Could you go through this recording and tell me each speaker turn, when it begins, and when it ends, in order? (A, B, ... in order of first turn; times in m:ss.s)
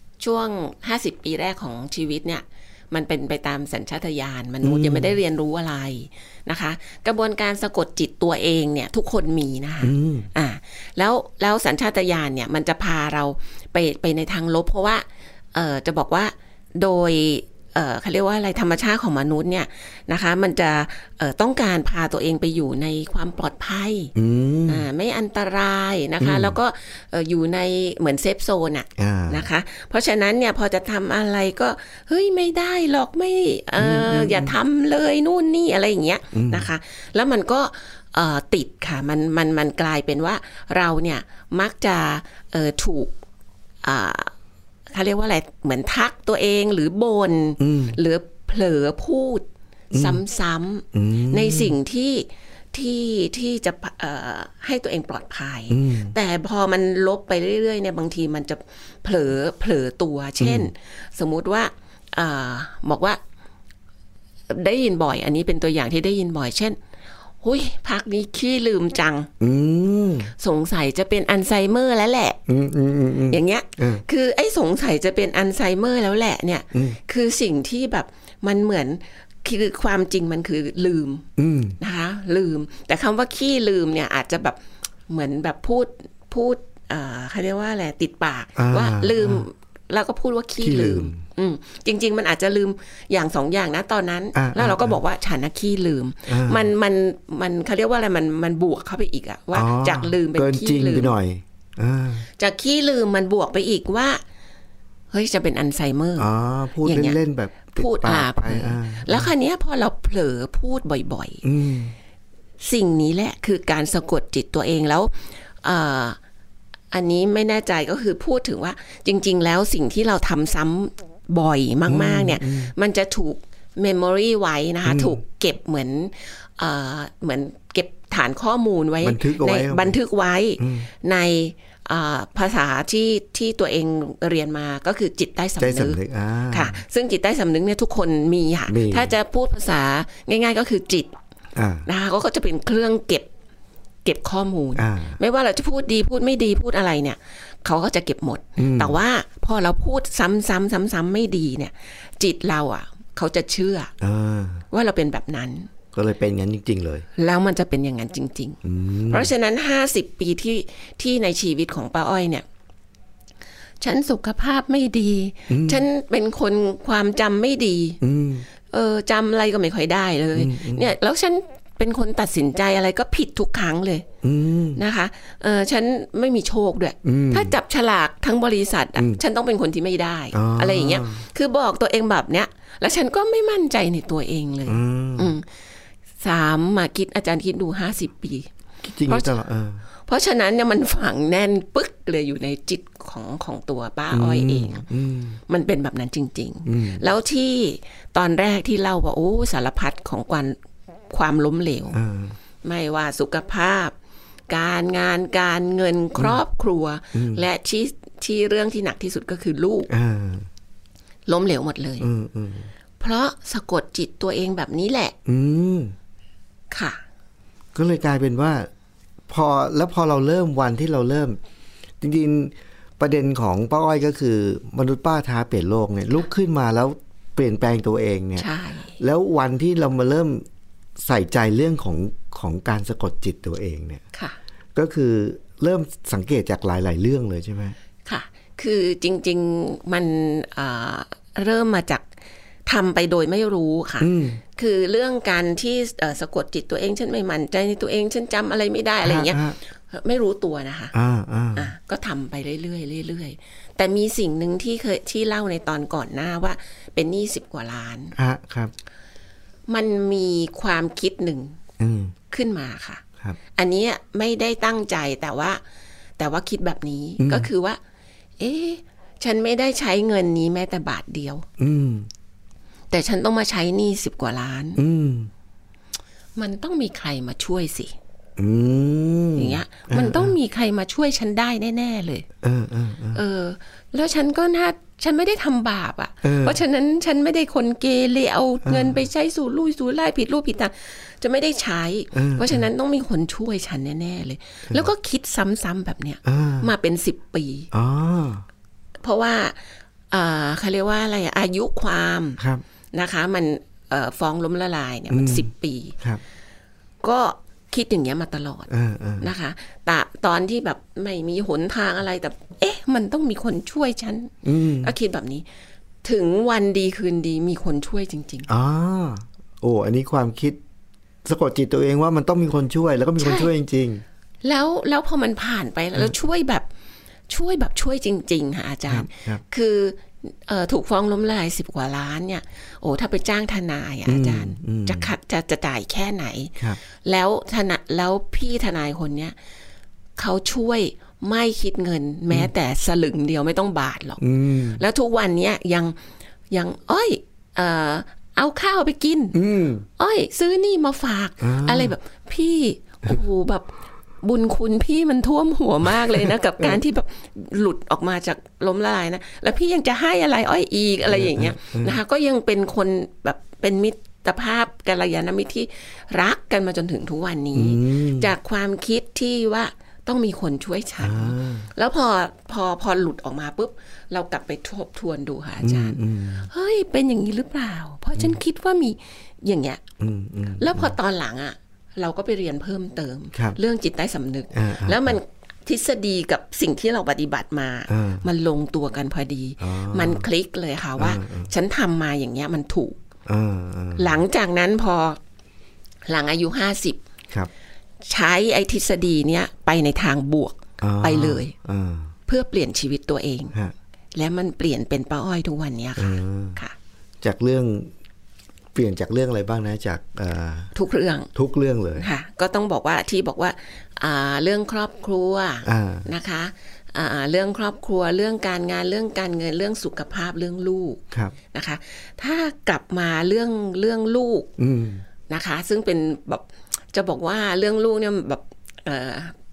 0:00.2-0:24.1 A
0:04.6-0:05.2 B
0:09.8-0:10.3 B
0:24.2-0:24.8 B
0:24.7-0:43.1 A
0:26.2-0:26.6 B
0:29.0-0:29.5 B
0:33.8-0:34.5 B
0:36.3-0:36.7 B
0:43.8-0:44.3 A
0:44.9-1:03.2 A
0:47.6-0:48.0 B
0:49.9-0:50.2 B
0:50.9-0:51.8 B
0:55.7-0:56.2 B
1:00.4-1:00.7 B
1:04.5-1:06.8 A
1:07.4-1:09.3 A
1:09.4-1:10.3 B
1:10.4-1:12.4 A
1:12.5-1:14.0 B
1:13.3-1:21.3 A
1:21.4-1:21.8 B
1:21.8-1:41.1 A
1:28.6-1:29.4 B
1:30.6-1:31.2 B
1:34.4-1:35.0 B
1:36.3-1:36.7 B
1:39.5-1:42.3 B
1:42.4-1:44.2 A
1:45.1-1:46.3 A
1:46.2-1:49.3 B
1:46.8-1:47.2 A
1:47.7-1:51.4 A
1:51.4-1:52.0 B
1:52.6-1:56.2 A
1:56.9-2:16.0 A
2:01.9-2:02.7 B
2:04.8-2:05.2 B
2:09.0-2:10.0 B
2:10.6-2:10.9 B
2:15.6-2:16.8 B
2:16.5-2:21.2 A
2:18.7-2:19.1 B
2:21.6-2:21.9 B
2:21.9-2:23.3 A
2:24.0-2:33.9 A
2:24.8-2:25.2 B
2:28.6-2:29.0 B
2:34.0-2:34.6 B
2:34.7-2:35.7 A
2:35.9-2:37.1 B
2:37.2-2:42.4 A
2:38.6-2:39.3 B
2:43.8-2:48.0 A
2:45.5-2:45.8 B
2:48.0-2:48.5 B
2:48.7-2:54.1 A
2:50.4-2:50.9 B
2:54.2-2:54.8 B
2:54.8-3:05.5 A
2:57.0-2:57.6 B
3:00.3-3:01.2 B
3:04.7-3:05.4 B
3:06.2-3:08.5 A
3:08.8-3:09.8 B
3:09.1-3:09.3 A
3:10.1-3:14.9 A
3:14.1-3:15.4 B
3:15.5-3:20.6 A
3:16.7-3:17.0 B
3:21.1-3:22.0 A
3:21.9-3:22.4 B
3:22.6-3:23.9 A
3:24.5-3:29.9 A
3:27.1-3:27.4 B
3:29.9-3:30.5 B
3:31.3-3:32.1 A
3:32.0-3:32.7 B
3:33.0-3:35.2 A
3:35.3-3:36.0 B
3:36.7-3:37.0 A
3:37.8-3:38.7 B
3:39.3-3:41.4 B
3:42.0-3:48.5 B
3:48.4-3:49.0 A
3:49.0-3:50.5 B
3:51.0-3:54.0 B
3:54.8-3:57.8 B
3:58.1-4:02.1 A
4:02.7-4:11.0 A
4:04.0-4:04.4 B
4:09.0-4:09.6 B
4:10.9-4:11.7 B
4:11.6-4:18.2 A
4:18.2-4:18.7 B
4:19.7-4:21.6 A
4:21.8-4:22.1 B
4:22.3-4:23.0 A
4:23.6-4:25.6 A
4:26.2-4:27.8 A
4:27.2-4:27.5 B
4:28.4-4:31.5 A
4:31.6-4:32.1 B
4:32.9-4:34.8 A
4:34.8-4:35.3 B
4:36.4-4:38.0 A
4:38.4-4:40.3 B
4:39.4-4:42.3 A
4:42.4-4:43.2 B
4:43.1-4:57.7 A
4:46.2-4:46.6 B
4:48.6-4:49.0 B
4:52.1-4:52.6 B
4:56.2-4:56.7 B
4:57.7-4:58.4 B
4:59.0-5:02.4 A
5:02.9-5:06.0 A
5:05.1-5:06.2 B
5:07.0-5:15.5 A
5:08.7-5:09.3 B
5:14.4-5:14.9 B
5:16.0-5:18.5 A
5:18.5-5:20.6 B
5:21.2-5:24.0 B
5:23.2-5:23.5 A
5:24.4-5:26.7 A
5:27.3-5:39.4 A
5:28.9-5:29.4 B
5:34.1-5:35.1 B
5:40.2-5:46.0 A
5:44.2-5:44.8 B
5:46.5-5:49.4 A
5:49.3-5:49.9 B
5:50.0-6:19.8 A
5:51.4-5:52.0 B
6:01.1-6:02.0 B
6:07.6-6:08.3 B
6:11.0-6:11.7 B
6:15.6-6:16.5 B
6:20.0-6:21.0 B
6:20.6-6:33.0 A
6:24.5-6:25.2 B
6:27.9-6:28.3 B
6:29.6-6:30.3 B
6:31.0-6:31.5 B
6:33.3-6:34.2 B
6:34.0-6:35.2 A
6:36.1-6:37.0 A
6:38.0-6:41.5 A
6:40.8-6:42.1 B
6:42.3-6:43.5 A
6:44.1-6:46.8 A
6:46.0-6:46.6 B
6:47.2-6:47.9 B
6:48.8-6:50.7 B
6:50.7-6:51.3 A
6:51.4-6:52.1 B
6:52.0-7:04.5 A
6:55.7-6:56.1 B
7:04.6-7:05.0 B
7:05.3-7:09.3 A